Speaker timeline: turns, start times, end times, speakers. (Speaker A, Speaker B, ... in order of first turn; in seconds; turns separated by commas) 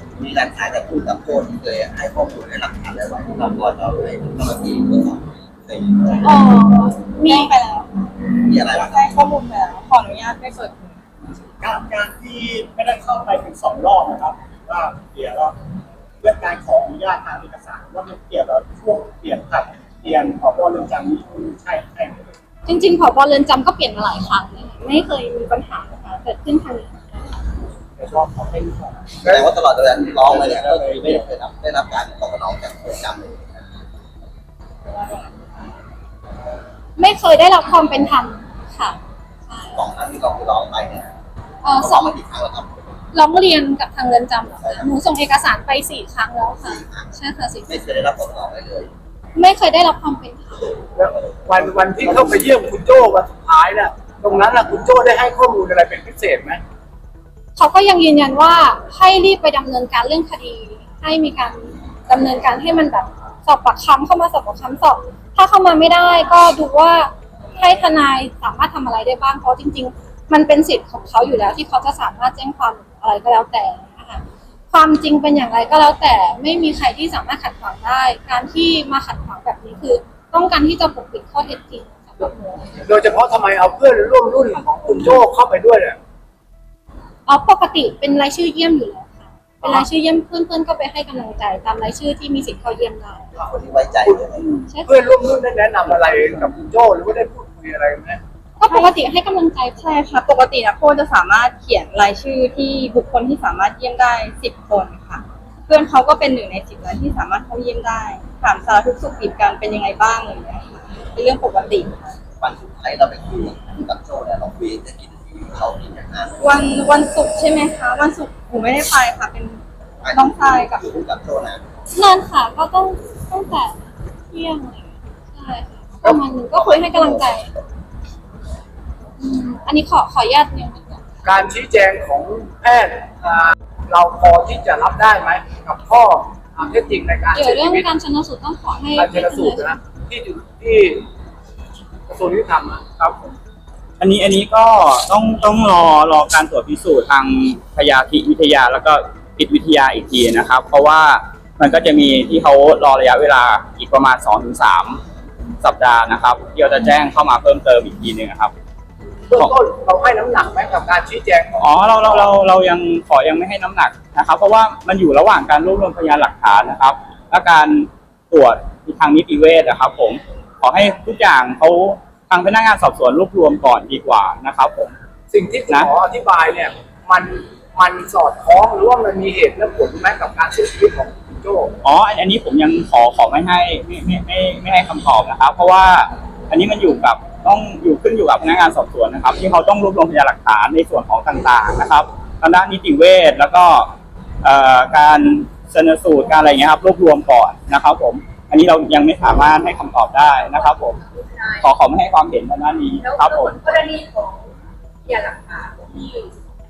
Speaker A: 0.2-6.2, Speaker B: 6.2-7.5, Speaker C: 7.2-7.9, Speaker A: 8.5-9.0, Speaker C: 8.7-11.0, Speaker D: 11.6-15.5, Speaker D: 16.2-22.2, Speaker B: 22.6-27.2, Speaker D: 28.0-29.4, Speaker A: 29.2-33.7, Speaker D: 30.1-31.3, Speaker B: 37.0-39.8, Speaker A: 39.8-41.1, Speaker B: 41.6-42.1, Speaker A: 41.8-42.7, Speaker B: 43.1-47.7, Speaker A: 44.6-44.9, Speaker A: 46.6-47.1, Speaker A: 47.7-48.9, Speaker B: 49.3-50.7, Speaker E: 51.0-56.6, Speaker A: 52.0-52.4, Speaker B: 57.5-82.7, Speaker E: 82.8-86.0, Speaker B: 87.2-93.3, Speaker A: 93.4-94.4, Speaker E: 94.0-98.2, Speaker B: 94.7-95.2, Speaker B: 98.6-99.9, Speaker C: 98.6-99.0, Speaker C: 99.8-112.0, Speaker A: 112.4-116.3, Speaker C: 116.4-119.6, Speaker A: 120.0-121.6, Speaker C: 120.1-120.8, Speaker B: 121.9-123.8, Speaker B: 124.3-127.5, Speaker A: 126.0-127.5, Speaker B: 129.2-131.0, Speaker E: 131.2-137.8, Speaker B: 137.3-139.8, Speaker E: 138.9-141.0, Speaker E: 142.1-142.8, Speaker F: 143.0-143.3, Speaker F: 144.0-155.0, Speaker F: 155.6-158.5, Speaker E: 159.3-161.5, Speaker F: 161.5-174.9, Speaker E: 162.0-162.3, Speaker E: 175.3-181.7, Speaker F: 181.8-193.9, Speaker F: 194.4-201.0, Speaker G: 200.4-201.7, Speaker F: 201.6-203.8, Speaker G: 203.0-204.5, Speaker G: 205.0-206.3